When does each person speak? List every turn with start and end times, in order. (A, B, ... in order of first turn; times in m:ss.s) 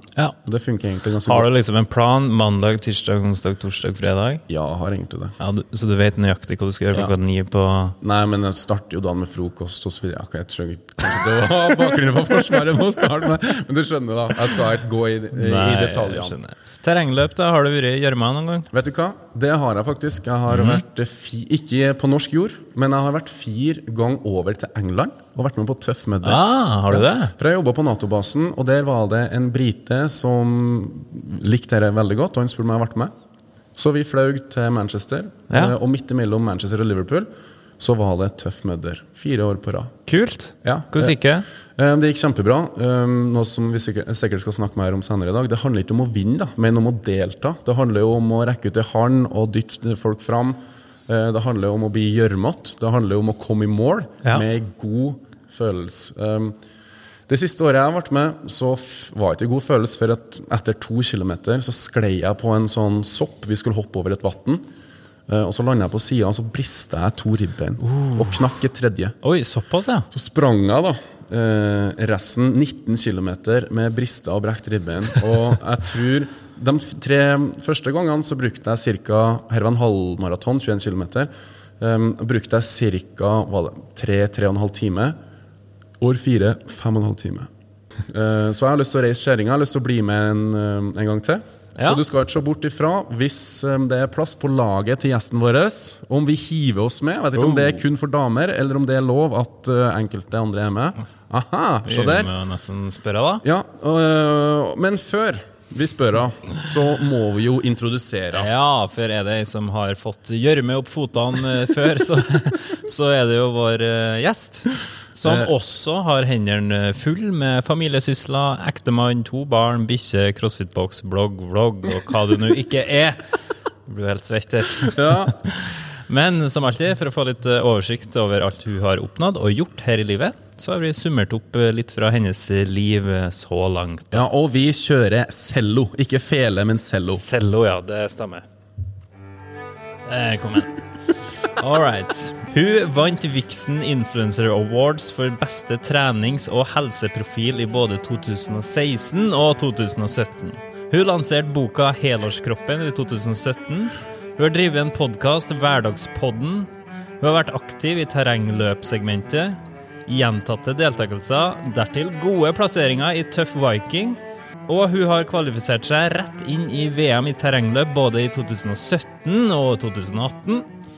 0:00.4-0:01.5 A
0:01.2-0:04.4 B
0:04.5-0:05.4 A
0:05.4-0:08.0 B
0:08.0-0:16.4 A
0:15.3-0:18.7 B
0:18.7-0:33.1 A
0:20.5-0:20.8 B
0:26.2-0:27.3 B
0:33.8-0:37.3 A
0:35.5-0:35.8 B
0:37.8-0:39.9 A
0:40.1-0:41.4 B
0:40.6-0:41.2 A
0:41.8-0:56.6 A
0:57.3-1:04.6 A
1:05.3-1:09.1 A
1:07.8-1:08.4 B
1:09.2-1:10.1 B
1:10.1-1:21.3 A
1:21.8-1:25.2 A
1:26.0-1:27.5 A
1:28.0-1:42.3 A
1:31.8-1:32.0 B
1:37.4-1:37.8 B
1:41.9-1:43.4 B
1:43.4-1:48.5 A
1:48.3-2:03.2 B
1:55.2-1:55.5 A
2:03.9-2:14.2 B
2:04.9-2:05.3 A
2:14.1-2:17.2 A
2:17.2-2:18.4 B
2:20.0-2:20.7 B
2:21.4-2:36.7 B
2:37.2-2:50.6 B